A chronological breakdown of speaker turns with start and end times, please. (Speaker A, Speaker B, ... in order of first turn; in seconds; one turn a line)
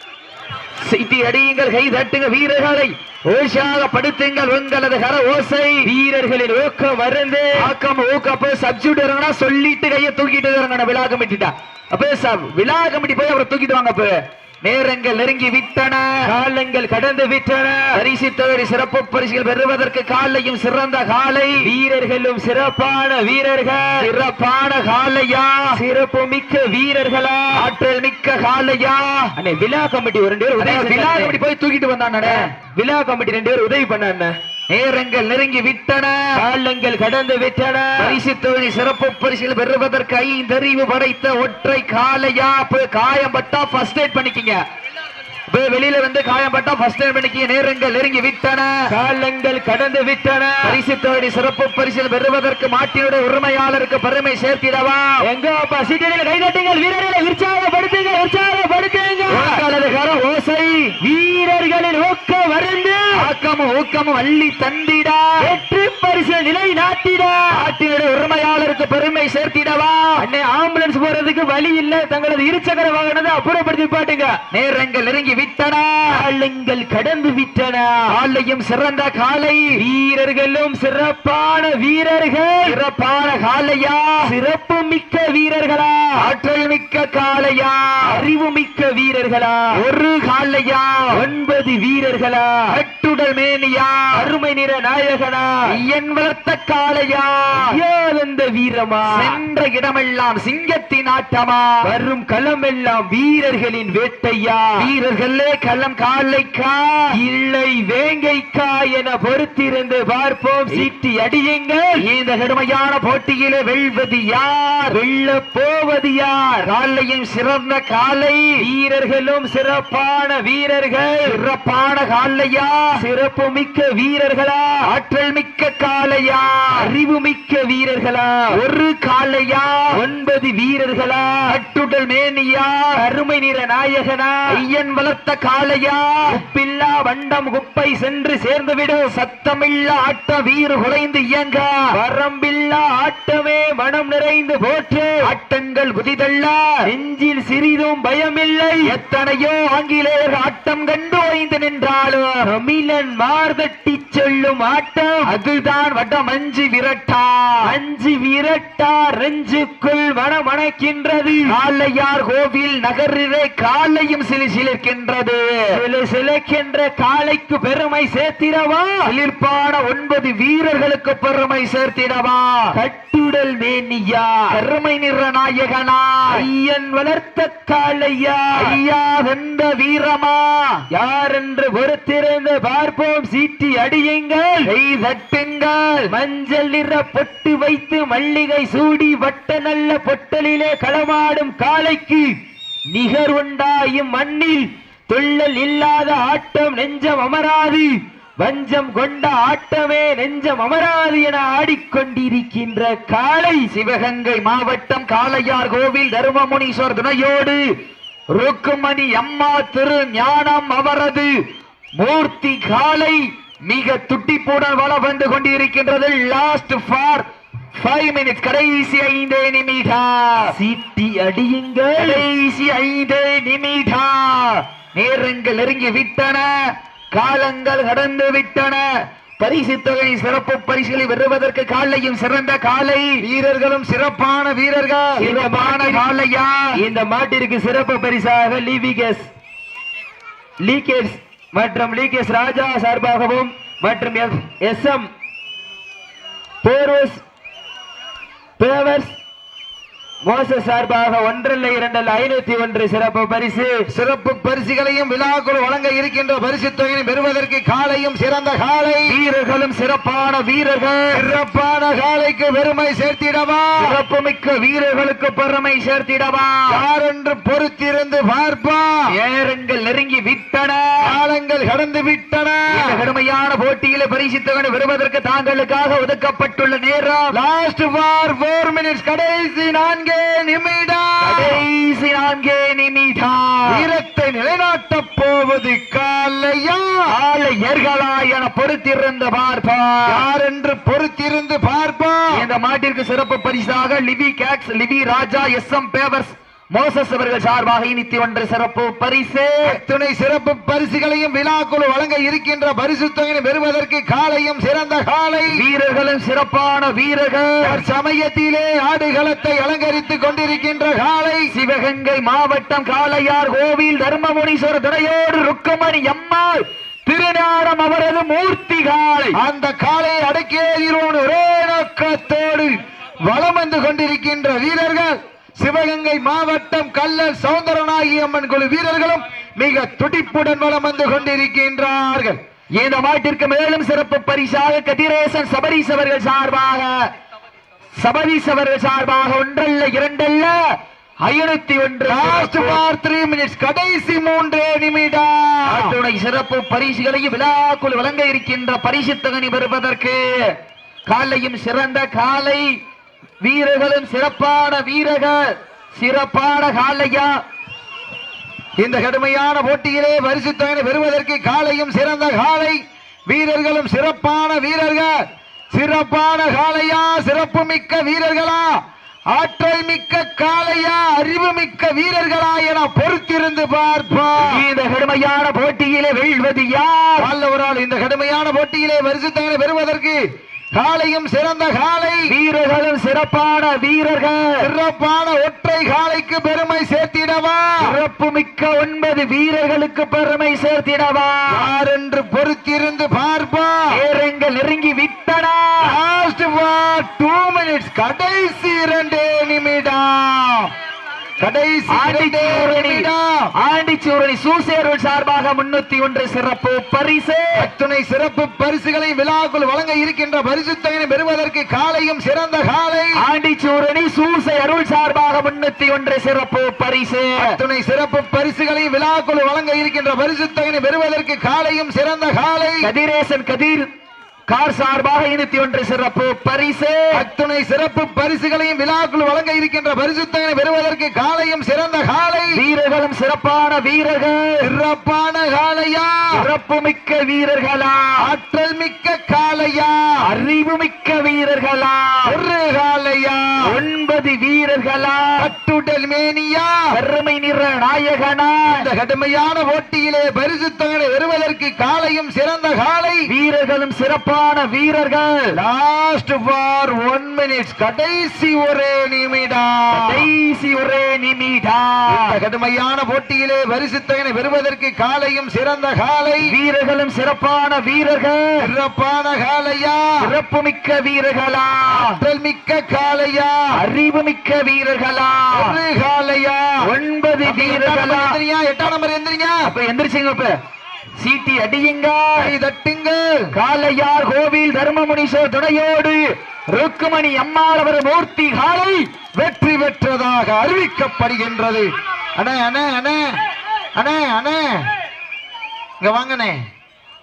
Speaker A: 0.8-5.8
Speaker B: 5.8-7.7
Speaker A: 7.6-16.1
Speaker B: 16.2-17.9
Speaker A: 17.9-21.6
Speaker B: 21.6-24.1
Speaker A: 24.0-25.6
Speaker B: 25.7-27.6
Speaker A: 27.6-29.3
Speaker B: 29.4-31.4
Speaker A: 30.6-32.5
Speaker B: 32.2-34.4
Speaker A: 34.7-36.2
Speaker B: 36.4-38.2
Speaker A: 38.0-44.6
Speaker A: 45.5-48.7
Speaker B: 48.9-50.8
Speaker A: 50.6-55.2
Speaker B: 55.2-59.6
Speaker A: 59.3-61.0
Speaker B: 61.0-63.2
Speaker A: 63.2-65.3
Speaker B: 65.4-67.6
Speaker A: 67.5-70.1
Speaker B: 70.2-74.4
Speaker A: 74.5-76.1
Speaker B: 76.1-78.1
Speaker A: 78.1-79.7
Speaker B: 79.8-82.8
Speaker A: 82.7-84.3
Speaker B: 84.2-86.2
Speaker A: 86.2-88.0
Speaker B: 88.1-89.7
Speaker A: 89.8-91.1
Speaker B: 91.1-92.7
Speaker A: 92.7-94.1
Speaker B: 94.2-95.5
Speaker A: 95.7-97.7
Speaker B: 97.5-99.4
Speaker A: 99.1-101.8
Speaker B: 101.8-104.9
Speaker A: 104.8-107.1
Speaker B: 107.1-112.0
Speaker A: 112.0-115.0
Speaker B: 114.9-116.7
Speaker A: 116.7-118.5
Speaker B: 118.6-121.4
Speaker A: 121.2-122.8
Speaker B: 123.0-124.8
Speaker A: 124.9-126.7
Speaker B: 126.8-128.6
Speaker A: 128.5-129.9
Speaker B: 129.9-131.6
Speaker A: 131.5-132.9
Speaker B: 133.0-134.4
Speaker A: 134.5-136.2
Speaker B: 136.3-139.1
Speaker A: 139.1-141.7
Speaker B: 141.9-145.2
Speaker A: 145.2-146.8
Speaker B: 146.9-148.9
Speaker A: 148.8-152.5
Speaker B: 152.4-155.3
Speaker A: 155.3-157.7
Speaker B: 157.6-161.5
Speaker A: 161.5-165.7
Speaker B: 165.7-169.0
Speaker A: 169.1-172.5
Speaker B: 172.7-174.6
Speaker A: 174.5-176.4
Speaker B: 176.3-178.8
Speaker A: 178.6-180.8
Speaker B: 180.9-184.7
Speaker A: 184.7-186.1
Speaker B: 186.1-192.4
Speaker B: 192.9-203.7
Speaker A: 203.7-207.6
Speaker A: 208.3-211.3
Speaker A: 212.0-220.5
Speaker B: 220.5-222.2
Speaker A: 222.0-226.5
Speaker A: 227.2-228.8
Speaker A: 229.4-233.2
Speaker C: 233.2-235.3
Speaker B: 235.2-236.1
Speaker A: 235.2-236.6
Speaker B: 236.8-239.3
Speaker B: 240.6-245.1
Speaker B: 246.6-247.2
Speaker B: 248.6-249.2
Speaker B: 250.2-253.9
Speaker C: 253.9-259.1
Speaker A: 259.1-261.2
Speaker C: 261.1-264.0
Speaker A: 263.8-266.7
Speaker C: 266.7-268.9
Speaker A: 269.1-270.9
Speaker C: 271.1-273.0
Speaker A: 272.8-277.3
Speaker C: 277.3-281.6
Speaker A: 281.2-283.8
Speaker C: 283.7-287.0
Speaker A: 287.1-290.2
Speaker C: 290.1-292.3
Speaker A: 292.3-299.8
Speaker C: 299.7-305.5
Speaker A: 305.5-307.8
Speaker C: 307.6-311.4
Speaker A: 311.5-319.4
Speaker C: 319.4-332.4
Speaker A: 332.8-337.0
Speaker A: 338.0-340.6
Speaker A: 341.2-342.8
Speaker C: 342.1-346.0
Speaker A: 345.7-350.5
Speaker A: 351.1-352.7
Speaker A: 353.4-357.3
Speaker C: 358.8-374.6
Speaker A: 374.4-377.2
Speaker C: 377.2-380.2
Speaker C: 380.8-382.2
Speaker A: 382.3-384.7
Speaker C: 384.6-387.8
Speaker A: 387.8-391.7
Speaker C: 391.5-393.9
Speaker A: 393.9-395.9
Speaker C: 395.8-400.7
Speaker C: 401.4-403.5
Speaker A: 401.9-407.7
Speaker C: 407.6-413.1
Speaker A: 413.2-417.6
Speaker C: 417.4-422.9
Speaker A: 422.8-423.9
Speaker A: 424.5-427.2
Speaker C: 427.1-432.6
Speaker A: 432.5-434.7
Speaker C: 434.6-436.4
Speaker A: 436.4-438.1
Speaker C: 438.2-440.1
Speaker A: 440.2-442.3
Speaker C: 442.3-443.5
Speaker A: 443.6-445.3
Speaker C: 445.4-446.7
Speaker A: 446.9-448.8
Speaker C: 448.7-453.2
Speaker A: 453.3-455.5
Speaker C: 455.6-460.3
Speaker A: 459.9-462.4
Speaker C: 462.1-466.5
Speaker A: 466.5-468.6
Speaker C: 468.6-470.1
Speaker A: 470.2-472.2
Speaker C: 471.9-473.6
Speaker A: 473.8-475.8
Speaker C: 475.5-476.9
Speaker A: 476.8-478.4
Speaker C: 477.4-479.6
Speaker A: 479.7-480.5
Speaker A: 481.2-482.5
Speaker C: 482.4-483.4
Speaker A: 483.5-486.2
Speaker A: 486.8-489.1
Speaker C: 489.4-493.4
Speaker C: 494.0-494.9
Speaker C: 496.0-496.6